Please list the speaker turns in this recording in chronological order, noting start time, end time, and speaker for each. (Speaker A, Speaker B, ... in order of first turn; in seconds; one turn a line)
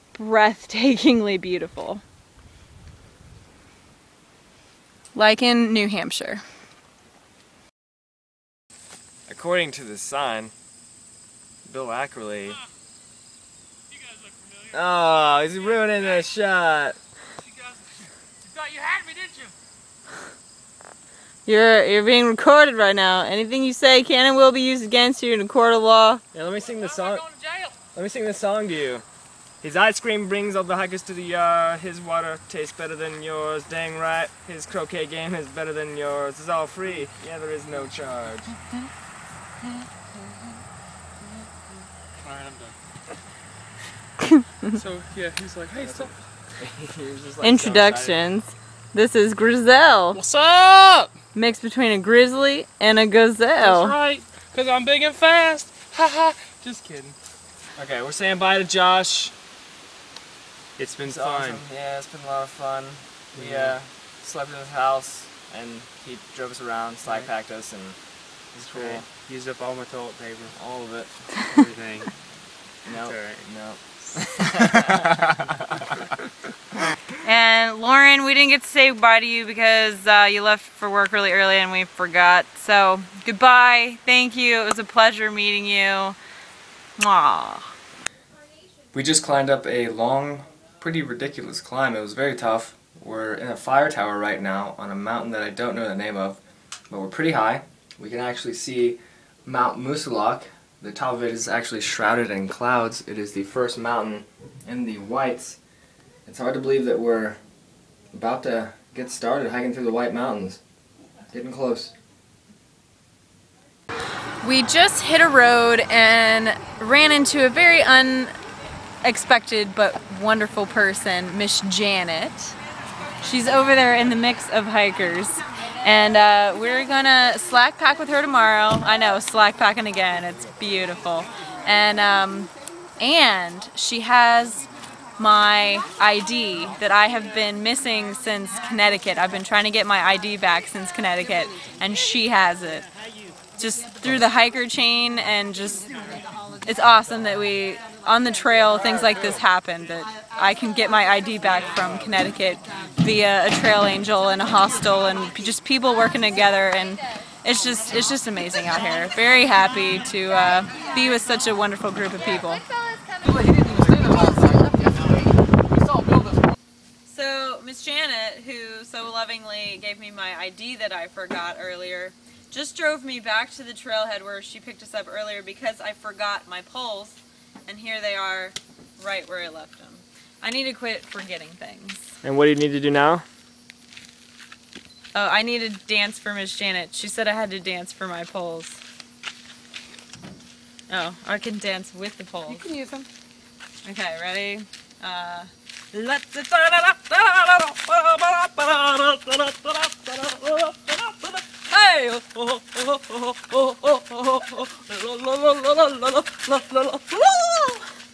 Speaker A: 0.1-2.0
Speaker A: 5.1-6.4
Speaker B: 9.3-10.5
Speaker B: 11.7-12.6
Speaker B: 14.7-17.0
Speaker C: 18.6-19.2
Speaker A: 21.4-26.2
Speaker B: 26.3-27.3
Speaker B: 27.9-29.0
Speaker B: 29.6-38.5
Speaker C: 42.2-42.8
Speaker A: 44.2-44.7
Speaker C: 44.7-46.1
Speaker B: 45.7-48.2
Speaker A: 47.4-50.2
Speaker C: 50.1-51.1
Speaker A: 51.3-54.0
Speaker C: 53.6-57.1
Speaker B: 57.8-59.3
Speaker C: 60.8-61.6
Speaker B: 61.0-68.0
Speaker C: 63.3-63.8
Speaker B: 68.5-69.1
Speaker C: 68.7-70.6
Speaker B: 70.5-71.1
Speaker C: 71.3-72.1
Speaker B: 72.8-76.0
Speaker C: 72.9-73.5
Speaker C: 74.4-75.6
Speaker A: 77.2-86.2
Speaker A: 87.0-87.7
Speaker B: 88.9-105.6
Speaker B: 106.2-107.4
Speaker B: 108.1-110.6
Speaker B: 111.3-111.9
Speaker A: 114.4-118.3
Speaker A: 119.0-122.6
Speaker A: 123.2-134.6
Speaker A: 135.2-142.9
Speaker A: 143.6-145.8
Speaker A: 146.6-162.6
Speaker A: 167.1-182.1
Speaker B: 182.2-183.2
Speaker A: 185.1-188.8
Speaker A: 190.9-192.6
Speaker A: 193.8-207.8